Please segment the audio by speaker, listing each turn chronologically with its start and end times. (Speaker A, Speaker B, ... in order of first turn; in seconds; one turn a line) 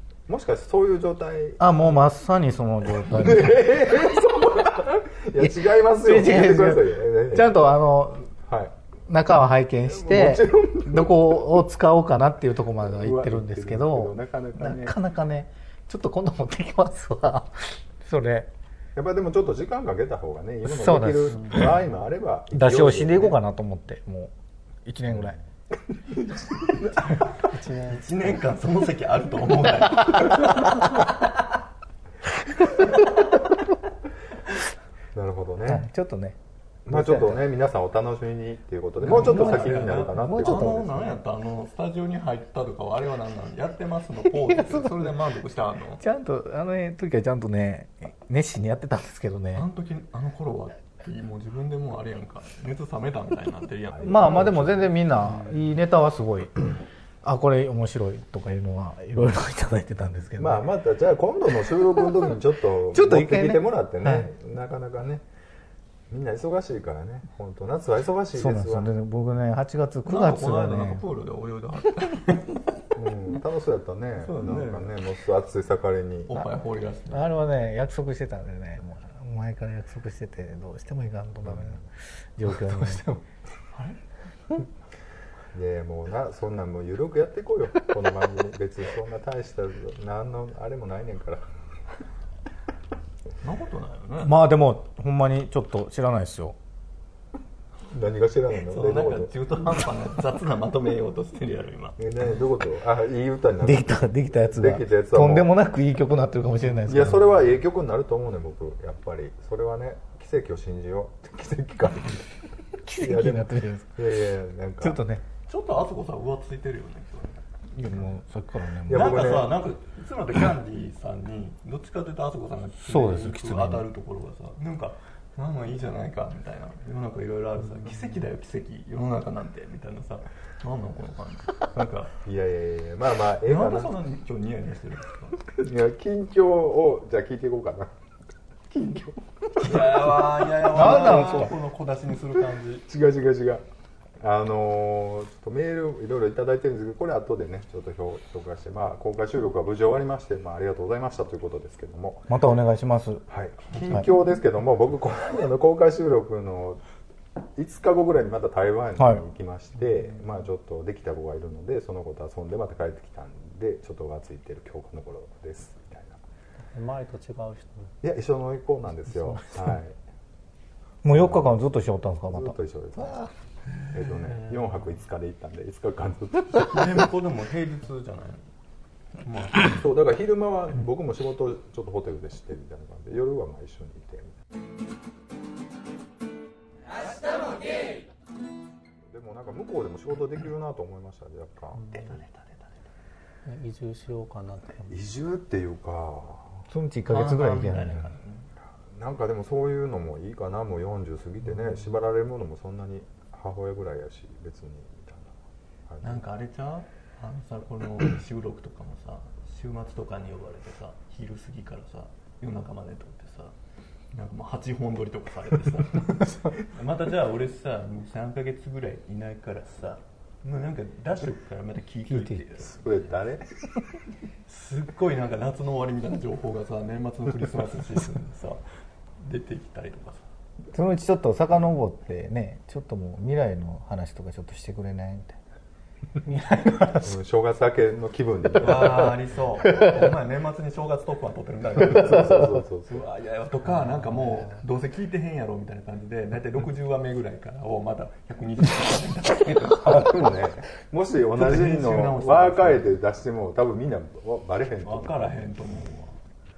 Speaker A: 0.3-1.8
Speaker B: 1.6-4.0
Speaker A: 3.0-7.8
Speaker B: 5.4-8.3
Speaker A: 8.4-8.7
Speaker B: 9.1-18.5
Speaker A: 9.9-11.6
Speaker A: 12.8-15.0
Speaker A: 19.0-23.4
Speaker B: 20.6-21.8
Speaker B: 22.5-24.3
Speaker B: 24.9-25.4
Speaker A: 25.1-25.4
Speaker C: 26.6-31.3
Speaker D: 27.4-28.1
Speaker A: 35.1-35.9
Speaker B: 35.6-37.5
Speaker A: 36.9-41.1
Speaker C: 39.0-46.0
Speaker B: 39.0-41.0
Speaker B: 44.4-45.1
Speaker B: 46.0-49.7
Speaker C: 49.5-54.5
Speaker A: 53.9-54.9
Speaker B: 54.0-56.7
Speaker C: 55.2-55.7
Speaker B: 57.2-60.7
Speaker A: 60.4-65.2
Speaker B: 62.9-64.3
Speaker A: 66.1-68.9
Speaker B: 68.3-71.0
Speaker C: 70.1-72.8
Speaker A: 73.0-76.3
Speaker C: 74.2-75.0
Speaker C: 76.3-77.3
Speaker B: 77.1-83.2
Speaker A: 81.5-81.8
Speaker C: 83.7-84.0
Speaker A: 85.5-91.5
Speaker C: 93.4-94.4
Speaker B: 94.2-96.6
Speaker A: 97.9-99.3
Speaker C: 98.6-102.0
Speaker A: 102.0-105.5
Speaker B: 103.6-107.3
Speaker A: 106.9-112.3
Speaker B: 112.8-114.0
Speaker A: 112.9-115.0
Speaker B: 114.8-115.2
Speaker C: 115.5-117.4
Speaker B: 117.7-119.3
Speaker A: 118.9-119.6
Speaker C: 118.9-132.2
Speaker B: 122.8-123.9
Speaker A: 132.2-133.9
Speaker C: 133.4-135.5
Speaker A: 135.5-137.9
Speaker A: 138.7-141.5
Speaker C: 139.6-142.9
Speaker B: 140.7-141.6
Speaker A: 142.9-143.6
Speaker A: 144.2-152.4
Speaker B: 152.3-153.2
Speaker A: 153.3-156.8
Speaker A: 157.6-166.2
Speaker B: 159.0-159.2
Speaker D: 166.7-167.9
Speaker A: 168.0-170.0
Speaker B: 171.0-173.3
Speaker A: 171.1-171.6
Speaker A: 172.3-173.2
Speaker C: 173.8-174.1
Speaker A: 173.9-177.0
Speaker C: 176.5-178.5
Speaker C: 179.2-179.8
Speaker A: 179.6-184.3
Speaker A: 189.1-192.0
Speaker C: 191.9-192.8
Speaker D: 193.4-195.0
Speaker A: 194.9-196.6
Speaker B: 196.7-198.1
Speaker C: 197.1-198.5
Speaker A: 198.9-205.3
Speaker A: 205.9-206.2
Speaker C: 206.0-213.5
Speaker C: 214.1-223.1
Speaker B: 222.1-222.4
Speaker A: 222.6-223.5
Speaker C: 224.5-228.7
Speaker C: 229.2-230.3
Speaker B: 230.7-235.4
Speaker D: 236.2-237.1
Speaker A: 236.9-239.2
Speaker C: 238.6-250.3
Speaker A: 241.8-243.0
Speaker A: 249.8-255.3
Speaker C: 251.3-252.9
Speaker C: 254.8-256.2